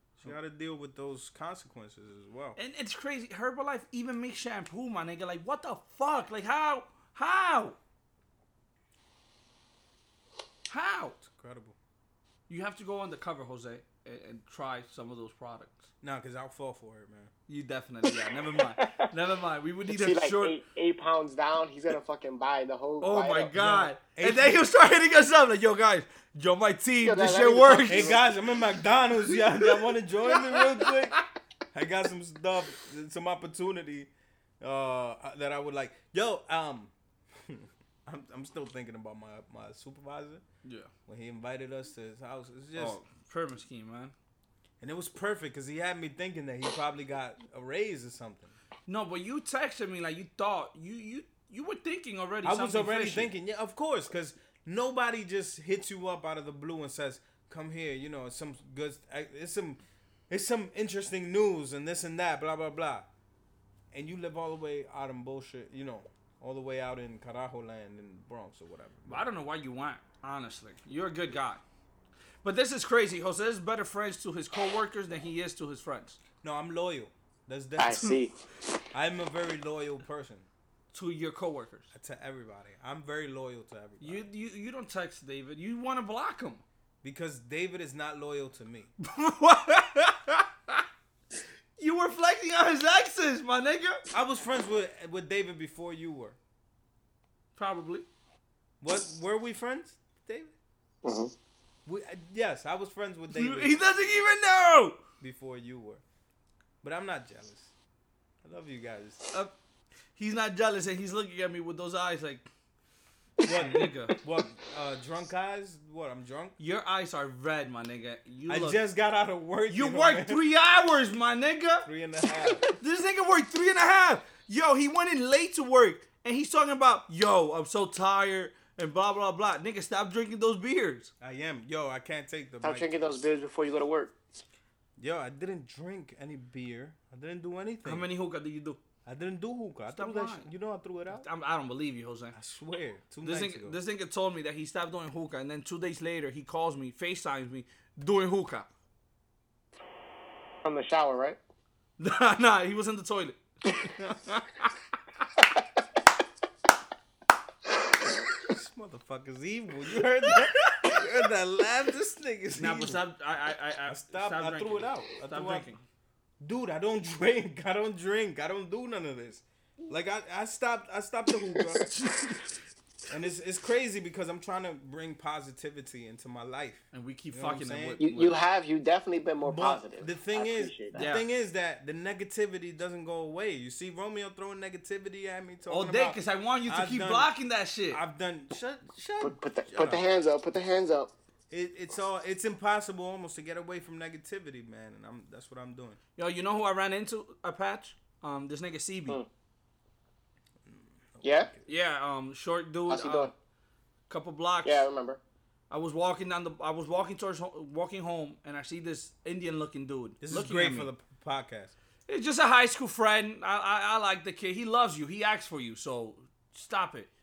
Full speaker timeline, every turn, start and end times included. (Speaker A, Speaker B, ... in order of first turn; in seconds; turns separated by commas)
Speaker A: 0.2-2.6, Speaker B: 2.5-7.8, Speaker B: 10.7-11.2, Speaker A: 11.3-11.8, Speaker B: 12.5-15.9, Speaker A: 16.0-17.3, Speaker B: 17.5-20.6, Speaker C: 18.8-19.1, Speaker C: 19.9-23.5, Speaker B: 23.0-28.1, Speaker A: 23.5-24.6, Speaker C: 27.0-28.2, Speaker A: 27.9-31.2, Speaker B: 29.4-31.2, Speaker A: 31.7-34.1, Speaker A: 34.6-40.4, Speaker B: 40.6-40.9, Speaker A: 41.1-43.0, Speaker B: 42.8-44.1, Speaker A: 44.8-48.5, Speaker B: 48.9-53.3, Speaker A: 52.4-63.1, Speaker A: 63.9-69.2, Speaker B: 69.0-71.6, Speaker B: 72.4-76.2, Speaker A: 76.4-78.1, Speaker C: 77.8-78.4, Speaker A: 78.9-80.5, Speaker B: 80.9-81.9, Speaker A: 81.9-84.2, Speaker B: 84.0-86.6, Speaker A: 87.0-88.9, Speaker B: 89.0-90.8, Speaker B: 91.8-94.0, Speaker A: 94.1-96.4, Speaker B: 97.5-98.0, Speaker A: 98.8-100.5, Speaker C: 101.0-101.3, Speaker A: 101.8-103.7, Speaker B: 103.3-105.0, Speaker A: 105.2-106.0, Speaker A: 106.8-107.7, Speaker A: 108.4-109.2, Speaker B: 110.2-112.5, Speaker A: 113.4-116.5, Speaker B: 113.5-114.2, Speaker B: 116.6-118.8, Speaker A: 118.5-120.4, Speaker B: 119.7-121.9, Speaker A: 121.8-122.7, Speaker B: 122.6-131.1, Speaker A: 131.2-133.2, Speaker C: 132.6-134.1, Speaker A: 135.0-138.1, Speaker B: 137.8-138.8, Speaker A: 139.0-141.2, Speaker B: 139.9-140.5, Speaker B: 141.1-142.4, Speaker A: 142.3-143.8, Speaker B: 143.2-148.7, Speaker C: 150.6-151.4, Speaker B: 152.0-154.7, Speaker A: 158.4-163.0, Speaker B: 160.7-161.0, Speaker B: 162.6-165.8, Speaker A: 163.9-165.7, Speaker A: 166.4-171.9, Speaker B: 171.8-172.5, Speaker A: 173.1-178.0, Speaker B: 176.9-178.4, Speaker C: 178.0-181.1, Speaker A: 179.4-187.3, Speaker B: 180.9-181.2, Speaker B: 185.7-188.0, Speaker A: 187.9-190.0, Speaker C: 189.2-191.1, Speaker A: 191.5-196.0, Speaker B: 196.2-199.2, Speaker A: 200.7-201.7, Speaker C: 201.2-201.5, Speaker B: 201.7-203.3, Speaker C: 202.9-203.3, Speaker B: 204.1-204.9, Speaker C: 204.6-205.2, Speaker B: 205.7-210.9, Speaker A: 210.2-211.7, Speaker B: 212.1-217.1